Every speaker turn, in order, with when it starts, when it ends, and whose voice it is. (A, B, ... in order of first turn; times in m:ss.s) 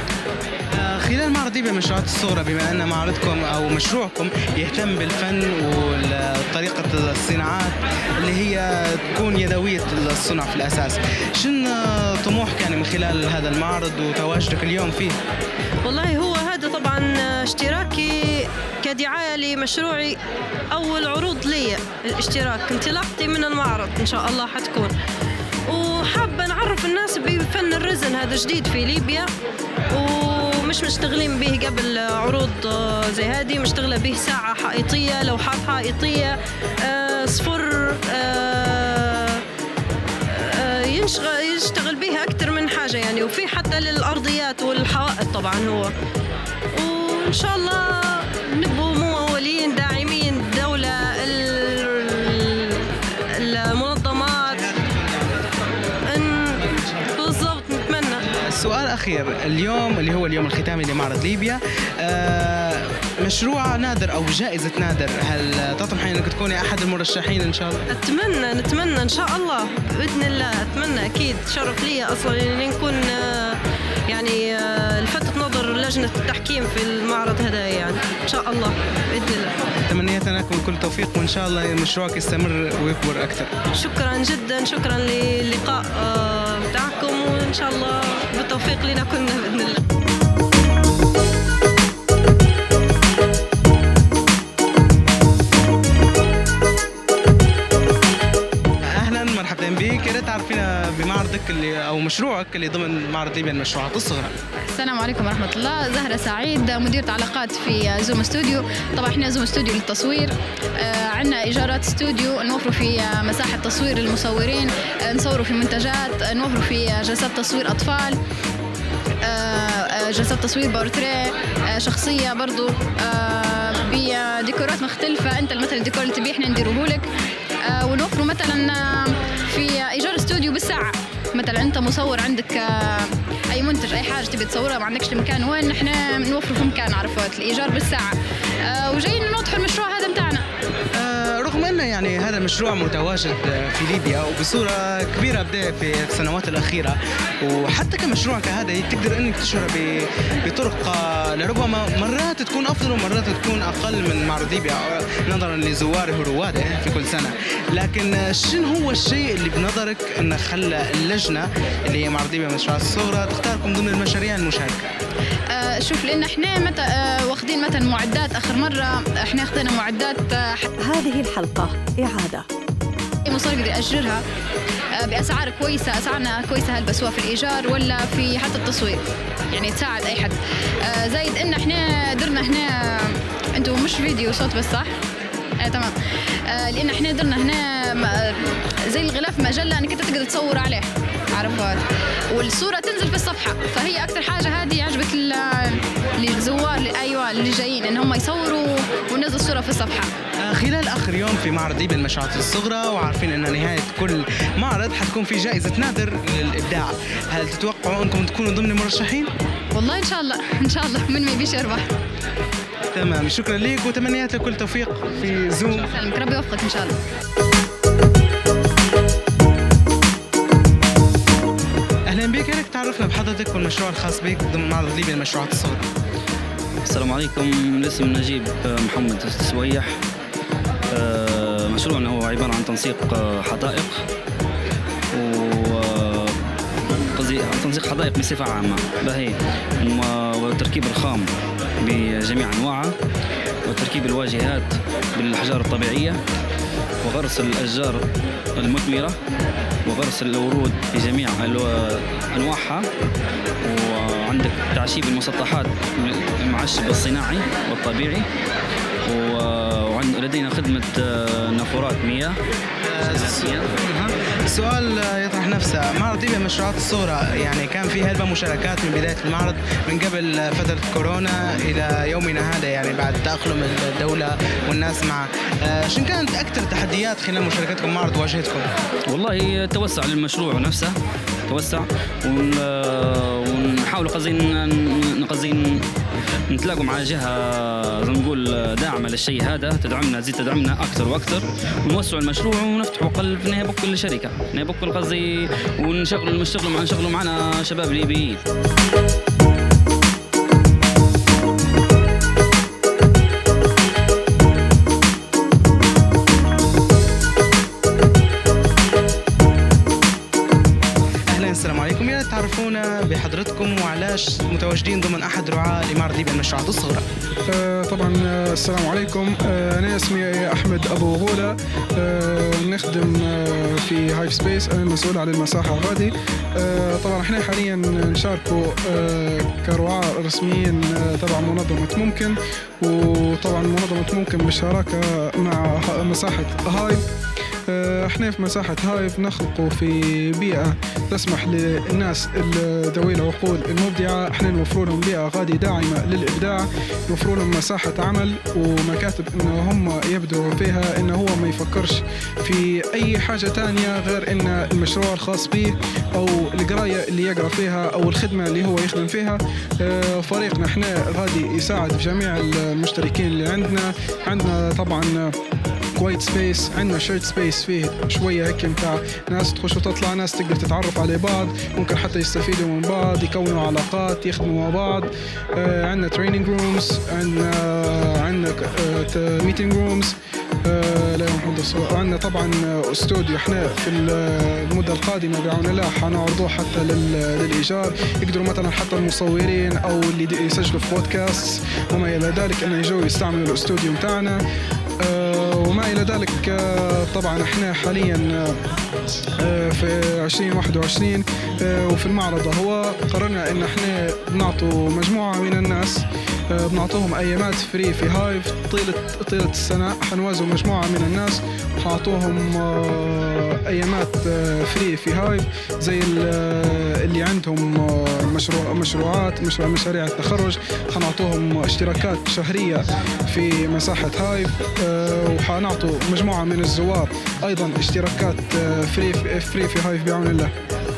0:00.7-0:15.2 A
0:15.8-0:20.2 B
0:20.7-0:24.9 B
0:25.7-0:29.3 B
0:29.9-0:39.4 B
0:40.3-0:45.9 B
0:46.7-0:54.7 B
0:54.5-0:55.3 A
0:56.1-0:56.6 B
0:57.2-0:58.2 B
0:58.5-1:07.8 A
1:07.9-1:13.6 B
1:14.1-1:19.5 B
1:19.9-1:23.5 A
1:23.8-1:29.8 B
1:39.0-1:44.4 A
1:44.7-1:50.3 C
1:50.8-1:58.2 C
1:59.3-2:07.0 C
2:07.7-2:09.0 C
2:09.5-2:18.1 C
2:18.7-2:20.4 C
2:20.9-2:44.9 A
2:45.5-2:50.7 C
2:51.4-2:51.6 C
2:53.3-2:54.2 C
2:55.0-2:59.0 C
2:59.6-3:00.4 C
3:00.9-3:02.7 C
3:03.6-3:04.9 C
3:05.6-3:05.9 C
3:06.5-3:08.0 C
3:08.9-3:11.8 C
3:12.3-3:20.1 C
3:20.4-3:29.3 A
3:29.8-3:31.9 C
3:32.9-3:36.0 A
3:36.0-3:37.0 C
3:42.1-3:45.9 A
3:46.8-3:49.9 D
3:50.9-3:54.0 D
3:55.1-3:56.4 D
3:57.1-4:01.3 D
4:01.8-4:02.9 D
4:03.6-4:06.2 D
4:07.0-4:08.0 D
4:08.6-4:09.2 D
4:09.9-4:12.8 D
4:13.6-4:18.2 D
4:19.1-4:22.4 D
4:22.8-4:38.6 A
4:23.0-4:23.7 D
4:39.1-4:40.9 D
4:41.5-4:45.8 D
4:46.5-4:58.4 D
5:11.3-5:17.0 A
5:17.5-5:37.0 E
5:37.7-6:05.3 E
6:06.0-6:20.1 E
6:20.7-6:34.4 E
6:35.0-6:38.6 E
6:39.4-7:10.5 E